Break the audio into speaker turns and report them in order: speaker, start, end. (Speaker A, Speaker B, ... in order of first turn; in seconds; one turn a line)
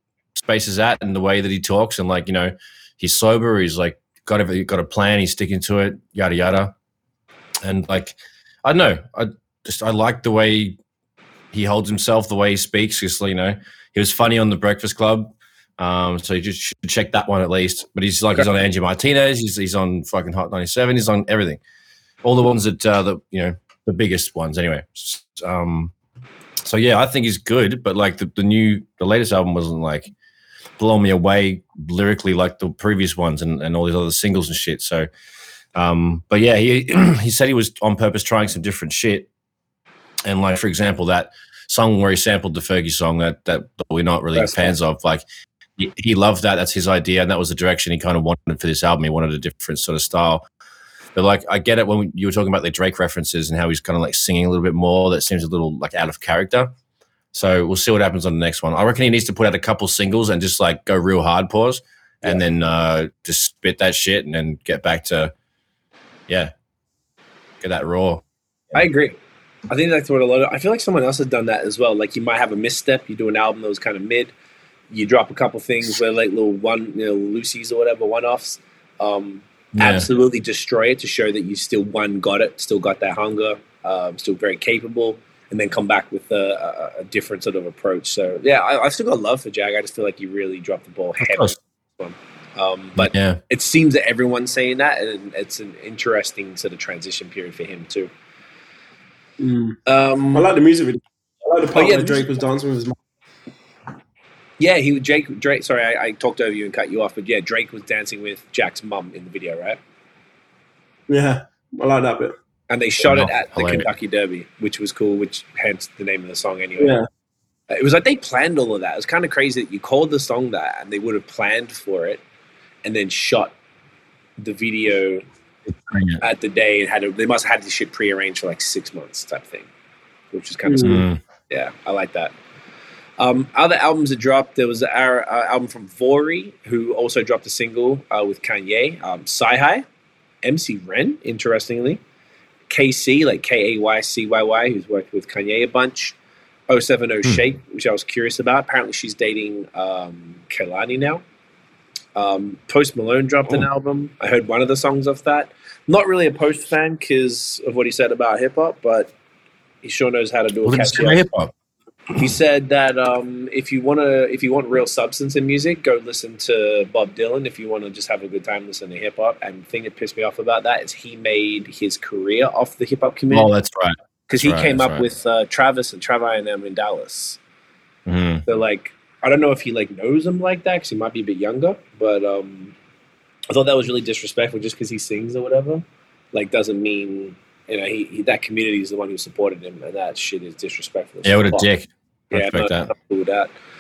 Speaker A: 0.3-6.7
Speaker A: 7.6-10.8
Speaker A: 11.5-21.6
Speaker A: 22.2-25.9
Speaker A: 26.6-30.1
Speaker A: 30.8-35.1
Speaker A: 35.7-39.3
Speaker A: 40.2-45.2
Speaker B: 44.3-44.7
Speaker A: 45.8-50.4
Speaker A: 51.1-56.7
Speaker A: 57.3-65.3
Speaker A: 67.6-68.2
Speaker B: 68.7-69.2
Speaker B: 69.7-74.3
Speaker B: 74.9-98.1
Speaker A: 79.8-80.0
Speaker A: 91.2-91.5
Speaker A: 93.0-93.4
Speaker C: 99.4-99.8
Speaker B: 99.8-100.5
Speaker C: 100.3-103.0
Speaker B: 101.7-102.2
Speaker B: 104.6-109.8
Speaker C: 111.1-112.3
Speaker B: 112.7-117.0
Speaker A: 113.0-113.9
Speaker C: 116.8-117.0
Speaker B: 117.7-122.2
Speaker B: 122.8-123.5
Speaker B: 124.4-125.2
Speaker A: 125.7-126.2
Speaker B: 126.2-129.7
Speaker B: 130.3-132.3
Speaker C: 130.7-131.0
Speaker A: 130.8-131.2
Speaker B: 133.2-139.8
Speaker B: 140.4-142.0
Speaker B: 142.7-146.2
Speaker B: 146.7-151.2
Speaker B: 152.1-159.1
Speaker B: 159.8-161.2
Speaker A: 160.6-161.5
Speaker B: 162.2-173.5
Speaker A: 173.3-175.1
Speaker B: 174.3-177.4
Speaker A: 178.1-178.4
Speaker B: 178.4-182.7
Speaker B: 183.5-191.7
Speaker A: 191.2-192.9
Speaker B: 192.3-193.5